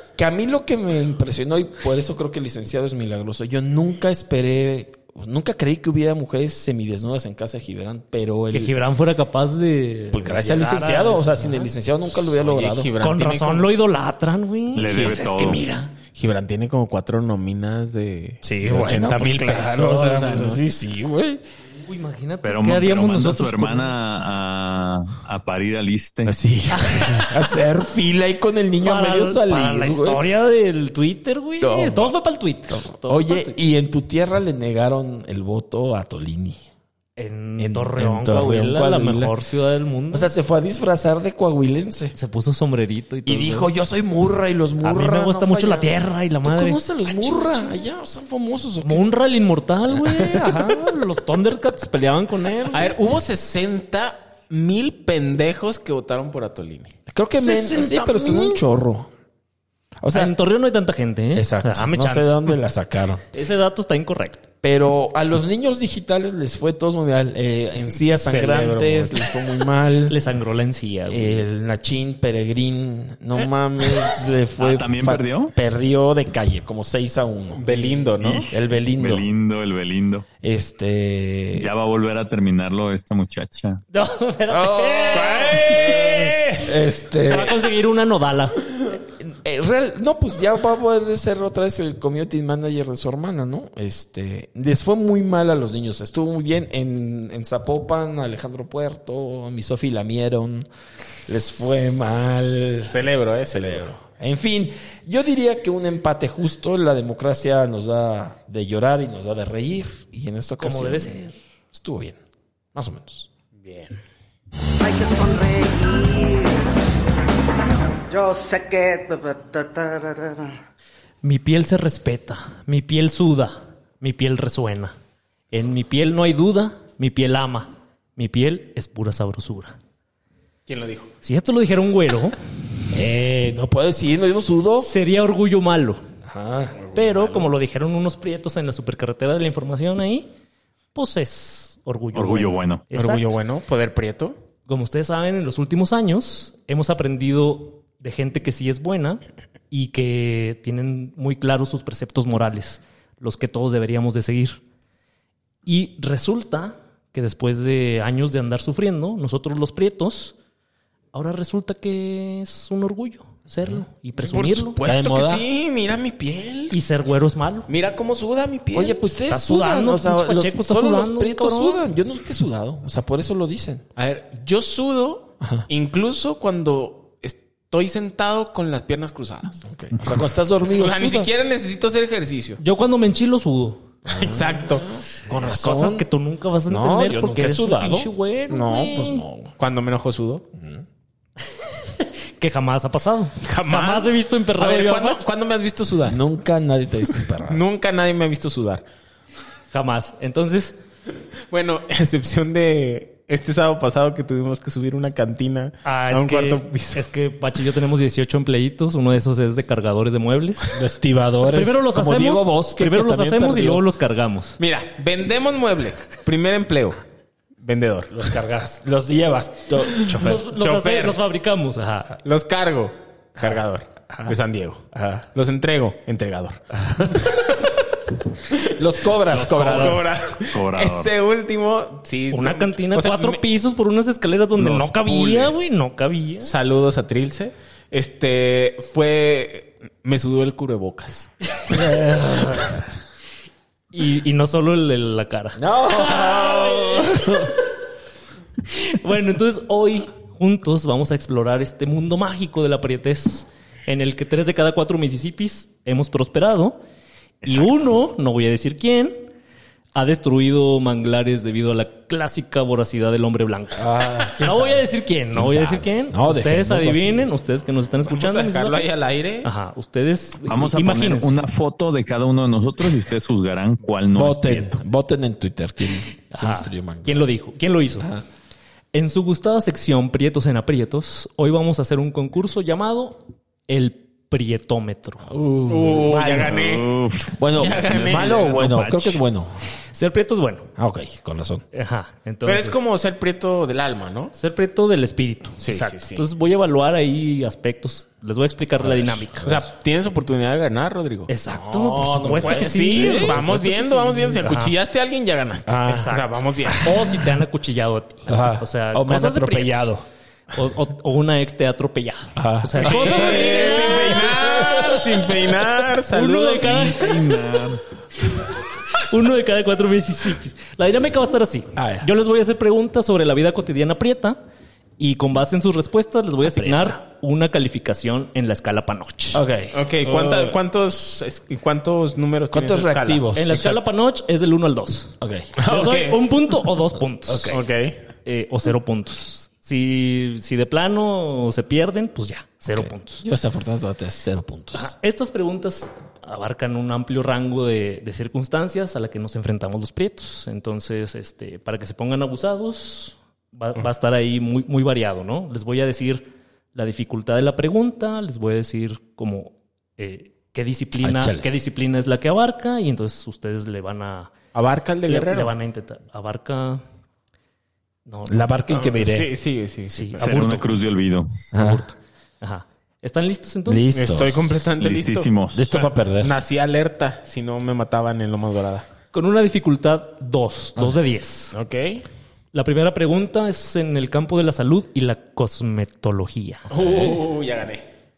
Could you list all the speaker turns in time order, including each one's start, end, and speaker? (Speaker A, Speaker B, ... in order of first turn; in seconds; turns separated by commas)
Speaker A: 0.2-8.8, Speaker B: 8.5-11.7, Speaker A: 10.1-12.9, Speaker C: 12.3-13.7, Speaker B: 13.0-15.9, Speaker D: 14.7-15.6, Speaker C: 14.9-15.4, Speaker C: 16.1-20.6, Speaker A: 18.4-21.4, Speaker B: 21.8-23.9, Speaker D: 22.4-26.4, Speaker A: 26.2-30.2, Speaker B: 26.7-27.4, Speaker B: 28.8-33.5, Speaker A: 31.6-32.1, Speaker A: 32.7-36.6, Speaker B: 37.2-40.3, Speaker A: 37.6-39.3, Speaker A: 40.1-42.1, Speaker B: 42.1-43.7, Speaker A: 43.2-49.1, Speaker B: 44.8-47.7, Speaker B: 48.8-52.9, Speaker A: 49.9-50.9, Speaker C: 52.7-56.9, Speaker A: 57.1-59.1, Speaker B: 57.4-58.4, Speaker C: 57.9-58.2, Speaker A: 60.0-60.3, Speaker B: 60.1-62.5, Speaker A: 61.3-63.2, Speaker B: 63.3-64.4, Speaker A: 64.6-70.2, Speaker C: 68.0-69.3, Speaker B: 70.1-71.4, Speaker A: 71.1-78.0, Speaker D: 74.6-75.5, Speaker C: 77.5-78.5, Speaker D: 78.2-80.2, Speaker A: 78.5-79.2, Speaker A: 80.4-81.7, Speaker D: 81.5-83.8, Speaker B: 83.9-86.4, Speaker A: 84.5-87.7, Speaker C: 85.1-86.7, Speaker B: 87.2-88.6, Speaker A: 88.9-100.7, Speaker A: 101.3-103.0, Speaker C: 102.8-103.9, Speaker A: 103.5-112.2, Speaker B: 110.6-111.3, Speaker A: 112.7-113.3, Speaker C: 113.6-114.0, Speaker E: 114.8-116.5, Speaker E: 118.1-120.5, Speaker B: 121.2-124.9, Speaker B: 125.5-129.8, Speaker C: 130.7-131.1, Speaker B: 131.2-132.3, Speaker A: 132.9-134.9, Speaker B: 134.8-136.0, Speaker A: 136.2-136.8, Speaker C: 136.8-137.5, Speaker B: 136.9-140.3, Speaker B: 140.9-143.4, Speaker D: 142.1-142.8, Speaker C: 142.9-144.3, Speaker B: 144.7-154.6, Speaker B: 155.7-160.3, Speaker B: 161.1-164.8, Speaker C: 164.2-166.8, Speaker A: 164.8-165.4, Speaker B: 166.7-167.7, Speaker C: 167.7-169.0, Speaker A: 168.7-173.8, Speaker B: 169.3-171.8, Speaker C: 173.9-179.6, Speaker A: 175.4-175.7, Speaker A: 179.6-181.4, Speaker C: 180.7-182.6, Speaker B: 182.6-183.9, Speaker A: 184.1-186.1, Speaker C: 184.1-184.9, Speaker B: 185.3-189.2, Speaker A: 186.7-189.5, Speaker C: 189.6-190.4, Speaker A: 190.6-190.8, Speaker B: 191.8-195.2, Speaker C: 193.4-196.2, Speaker A: 196.1-197.6, Speaker C: 197.5-198.8, Speaker B: 199.7-200.8, Speaker C: 201.5-207.1, Speaker B: 205.8-210.8, Speaker A: 210.7-213.8, Speaker B: 211.4-214.6, Speaker C: 214.6-217.0, Speaker C: 217.6-218.2, Speaker A: 218.1-220.5, Speaker B: 219.9-222.2, Speaker C: 220.5-221.2, Speaker C: 222.2-227.4, Speaker A: 224.9-225.2, Speaker A: 226.9-227.4, Speaker A: 228.6-230.2, Speaker C: 229.3-233.4, Speaker D: 230.4-231.1, Speaker B: 232.3-236.5, Speaker D: 234.6-235.1, Speaker C: 235.0-235.8, Speaker C: 236.4-241.3, Speaker B: 241.7-242.7, Speaker A: 241.7-242.7, Speaker B: 243.9-247.6, Speaker A: 245.6-247.5, Speaker B: 248.7-256.8, Speaker B: 257.4-259.3, Speaker B: 259.9-268.9, Speaker A: 263.8-267.3, Speaker C: 268.1-269.5, Speaker B: 269.4-271.4, Speaker D: 270.4-274.8, Speaker A: 274.1-277.3, Speaker B: 276.3-278.1, Speaker A: 278.0-278.2, Speaker B: 278.9-285.3, Speaker A: 285.3-286.6, Speaker C: 285.7-286.9, Speaker D: 286.4-289.2, Speaker A: 287.4-289.6, Speaker C: 287.5-288.5, Speaker B: 289.9-290.7, Speaker A: 290.8-291.6, Speaker B: 291.7-292.8, Speaker C: 292.4-294.3, Speaker B: 294.3-299.6, Speaker C: 295.6-296.2, Speaker A: 298.8-299.4, Speaker C: 299.4-301.3, Speaker B: 301.3-304.7, Speaker A: 301.5-303.4, Speaker C: 302.4-306.9, Speaker A: 305.7-306.0, Speaker B: 305.9-315.3, Speaker A: 306.6-307.3, Speaker A: 308.3-310.0, Speaker A: 312.4-314.9, Speaker C: 312.8-316.9, Speaker B: 316.1-317.3, Speaker D: 316.6-317.8, Speaker B: 318.2-324.4, Speaker A: 321.8-322.1, Speaker B: 325.0-329.4, Speaker A: 326.4-326.9, Speaker A: 329.3-330.6, Speaker C: 329.7-333.2, Speaker A: 332.5-333.8, Speaker B: 333.3-337.6, Speaker A: 335.2-335.5, Speaker C: 335.6-336.3, Speaker A: 337.2-337.6, Speaker C: 337.5-338.0, Speaker B: 338.2-343.2, Speaker A: 342.7-344.9, Speaker B: 344.7-364.3, Speaker A: 361.0-361.4, Speaker C: 364.5-365.5, Speaker B: 365.1-366.8, Speaker B: 368.1-368.5, Speaker A: 368.3-369.3, Speaker C: 368.7-370.6, Speaker B: 369.9-370.7, Speaker D: 370.2-371.5, Speaker A: 371.5-371.8, Speaker B: 371.5-374.2, Speaker A: 373.7-374.3, Speaker C: 373.9-378.9, Speaker D: 374.8-375.8, Speaker A: 375.5-376.3, Speaker B: 379.1-381.5, Speaker C: 381.5-382.0, Speaker B: 382.5-386.7, Speaker C: 386.7-387.8, Speaker A: 386.7-387.2